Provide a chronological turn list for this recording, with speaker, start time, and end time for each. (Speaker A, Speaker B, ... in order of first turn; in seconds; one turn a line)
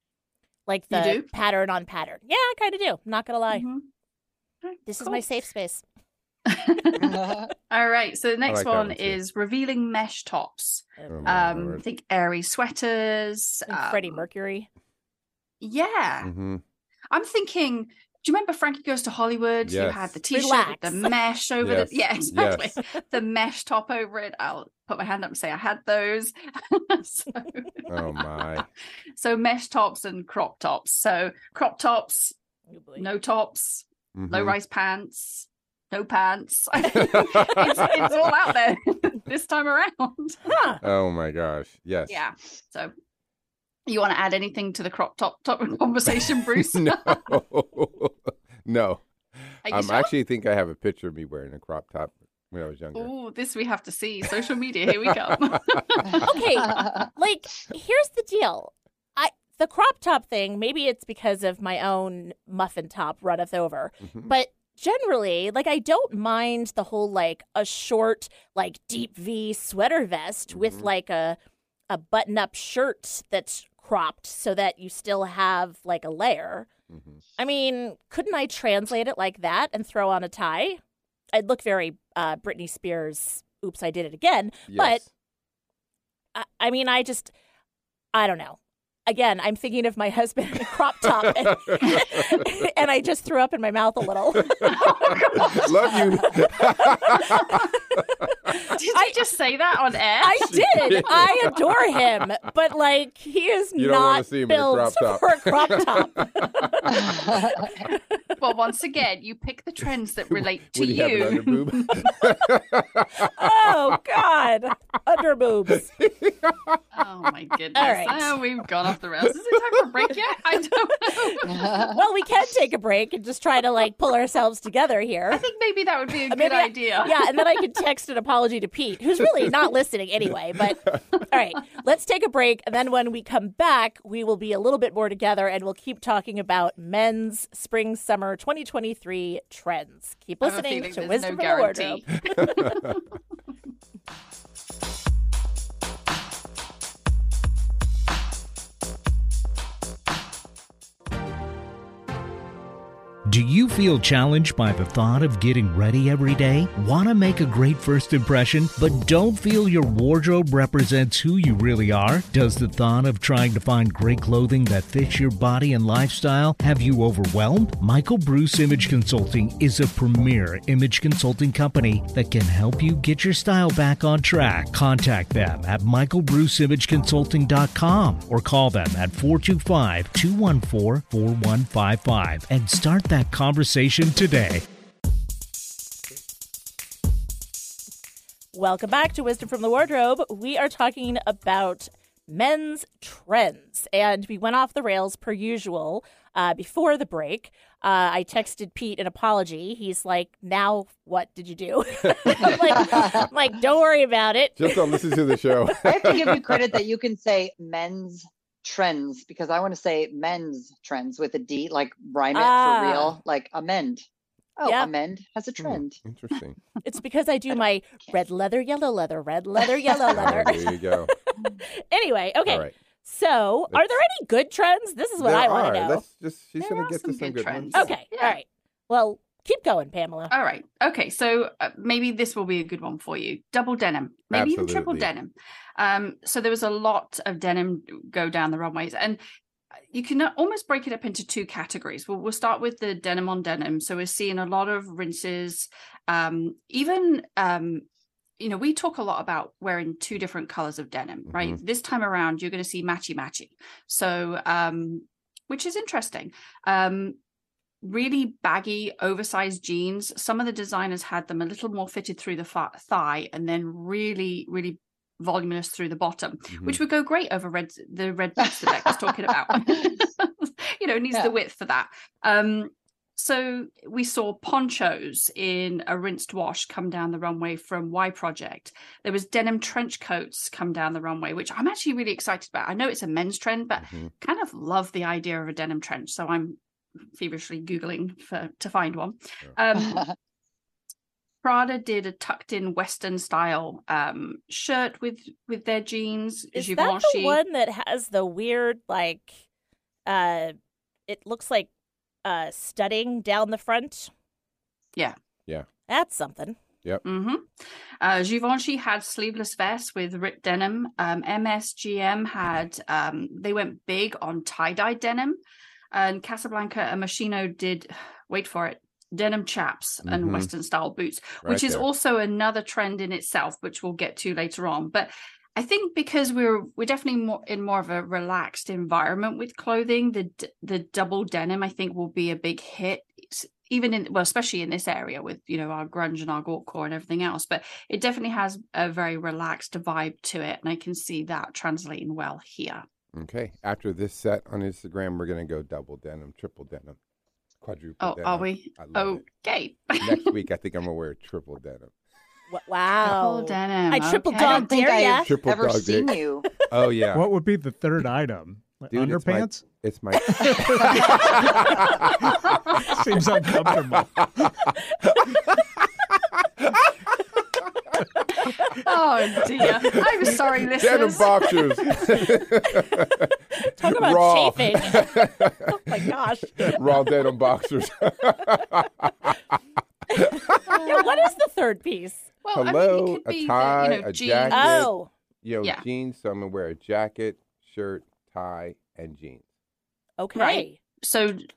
Speaker A: 0.7-3.7
Speaker B: 0.9-1.3
Speaker B: 3.5-3.9
Speaker B: 4.6-5.2
Speaker A: 4.9-5.8
Speaker B: 6.5-14.2
Speaker C: 7.0-7.5
Speaker D: 8.5-9.2
Speaker D: 11.1-11.8
Speaker A: 13.7-14.7
Speaker B: 15.6-16.3
Speaker D: 16.2-16.6
Speaker B: 17.1-28.6
Speaker D: 19.6-20.2
Speaker A: 20.3-21.1
Speaker D: 21.6-22.8
Speaker D: 27.9-28.7
Speaker B: 29.2-32.4
Speaker A: 32.7-33.1
Speaker B: 33.0-40.4
Speaker D: 34.1-34.6
Speaker D: 36.9-38.1
Speaker A: 40.5-40.8
Speaker D: 40.8-42.2
Speaker B: 42.1-42.9
Speaker B: 43.9-47.2
Speaker D: 46.7-53.1
Speaker B: 49.7-50.1
Speaker B: 53.0-56.4
Speaker D: 54.9-56.2
Speaker A: 56.2-71.4
Speaker C: 56.7-57.0
Speaker D: 70.5-70.9
Speaker A: 71.9-76.7
Speaker D: 76.9-77.2
Speaker A: 77.4-80.8
Speaker A: 81.3-85.0
Speaker D: 84.7-85.1
Speaker A: 86.3-87.3
Speaker A: 88.1-95.2
Speaker D: 91.2-92.5
Speaker D: 94.3-98.3
Speaker B: 94.6-96.1
Speaker B: 98.6-100.9
Speaker A: 98.7-99.2
Speaker A: 100.2-107.1
Speaker D: 100.4-102.0
Speaker D: 103.8-107.3
Speaker C: 106.9-107.7
Speaker A: 107.8-108.2
Speaker B: 108.4-112.1
Speaker D: 110.3-114.0
Speaker A: 113.2-115.9
Speaker D: 115.7-116.8
Speaker B: 116.9-121.6
Speaker A: 117.8-118.3
Speaker A: 121.1-125.5
Speaker C: 121.5-122.0
Speaker B: 125.3-127.5
Speaker A: 126.3-142.8
Speaker D: 129.2-129.6
Speaker B: 140.4-142.9
Speaker D: 142.4-142.7
Speaker E: 153.3-184.6
Speaker A: 188.5-205.7
Speaker D: 202.1-203.2
Speaker C: 202.8-203.2
Speaker D: 204.6-206.8
Speaker C: 205.8-214.0
Speaker A: 212.3-213.2
Speaker C: 214.6-216.0
Speaker A: 214.6-214.9
Speaker D: 215.6-216.6
Speaker A: 216.8-226.0
Speaker C: 219.9-220.4
Speaker D: 220.1-221.1
Speaker D: 222.5-222.7
Speaker D: 223.7-224.0
Speaker D: 225.2-227.9
Speaker B: 226.6-228.4
Speaker A: 227.7-230.3
Speaker B: 230.3-239.2
Speaker D: 234.3-235.1
Speaker B: 239.9-247.8
Speaker B: 248.4-257.2
Speaker D: 251.3-251.6
Speaker B: 257.8-286.6
Speaker D: 266.5-266.8
Speaker C: 268.4-269.0
Speaker C: 269.5-269.9
Speaker D: 283.8-284.1
Speaker B: 287.1-290.1
Speaker C: 289.7-290.1
Speaker B: 291.4-297.4
Speaker A: 296.5-299.4
Speaker A: 300.1-300.6
Speaker A: 301.1-301.7
Speaker A: 302.2-304.1
Speaker A: 305.9-306.6
Speaker B: 307.1-315.4
Speaker B: 315.9-342.9
Speaker D: 320.1-320.5
Speaker D: 321.4-321.9
Speaker D: 343.1-347.0
Speaker D: 347.6-349.2
Speaker B: 348.0-350.3
Speaker D: 350.0-351.9
Speaker A: 352.5-355.3
Speaker B: 353.0-354.7
Speaker C: 354.4-356.5
Speaker D: 355.2-356.2
Speaker D: 356.7-357.3
Speaker F: 357.1-359.6
Speaker D: 358.9-366.9
Speaker F: 360.4-361.7
Speaker F: 362.8-364.5
Speaker B: 368.4-372.2
Speaker D: 369.6-379.6
Speaker A: 373.6-376.8
Speaker A: 380.1-382.2
Speaker D: 380.2-380.8
Speaker B: 382.4-384.9
Speaker D: 382.6-384.9
Speaker A: 384.5-385.1
Speaker D: 385.4-389.4
Speaker A: 390.2-390.8
Speaker B: 390.4-391.4